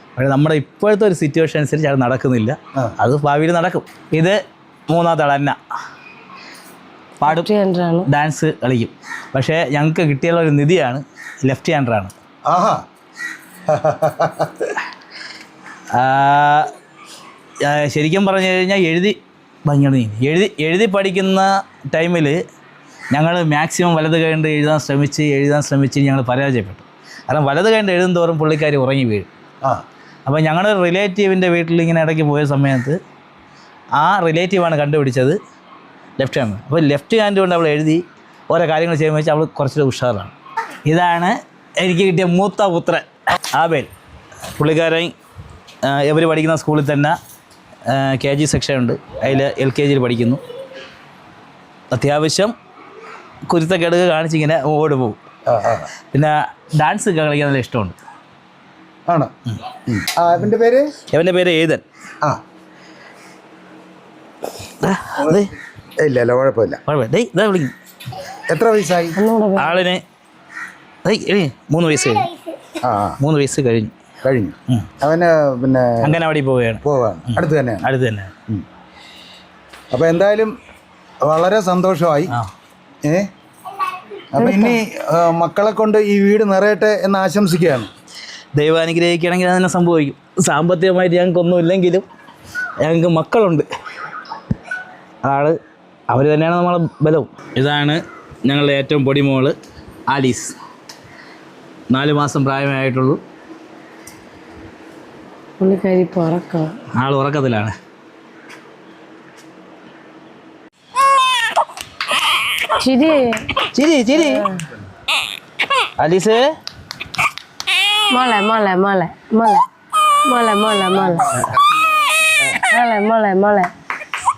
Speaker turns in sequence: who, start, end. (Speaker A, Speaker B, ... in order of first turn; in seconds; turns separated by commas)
Speaker A: 0.2-4.4, Speaker A: 4.9-5.6, Speaker A: 7.2-7.5, Speaker B: 7.2-8.1, Speaker A: 8.1-12.1, Speaker C: 12.5-12.8, Speaker C: 13.7-14.8, Speaker A: 15.9-16.7, Speaker A: 17.6-22.4, Speaker A: 23.1-29.3, Speaker A: 30.3-33.0, Speaker A: 34.0-35.4, Speaker A: 36.2-40.3, Speaker A: 40.9-43.9, Speaker A: 44.5-45.1, Speaker A: 45.8-47.2, Speaker A: 47.9-50.4, Speaker A: 51.9-52.5, Speaker A: 53.5-55.2, Speaker C: 55.5-55.9, Speaker A: 56.1-58.0, Speaker C: 59.1-59.3, Speaker C: 59.9-61.0, Speaker A: 61.1-61.8, Speaker A: 64.8-65.5, Speaker C: 66.0-66.8, Speaker A: 66.9-67.7, Speaker C: 68.5-69.2, Speaker B: 69.2-69.7, Speaker A: 69.6-70.0, Speaker A: 71.0-72.3, Speaker C: 72.8-73.2, Speaker A: 73.2-73.9, Speaker C: 74.2-76.2, Speaker A: 76.0-78.3, Speaker C: 76.8-77.9, Speaker C: 79.9-80.5, Speaker C: 81.2-82.3, Speaker C: 83.0-83.3, Speaker C: 84.3-87.9, Speaker B: 84.4-84.8, Speaker A: 88.6-92.0, Speaker A: 92.8-93.7, Speaker A: 95.2-95.6, Speaker A: 96.1-99.5, Speaker A: 100.1-100.5, Speaker A: 101.9-103.2, Speaker B: 105.6-106.8, Speaker A: 107.0-107.8, Speaker B: 112.7-113.6, Speaker A: 113.7-114.5, Speaker B: 114.2-114.6, Speaker A: 116.0-116.5, Speaker B: 118.1-119.7, Speaker B: 120.2-121.3, Speaker B: 122.7-123.7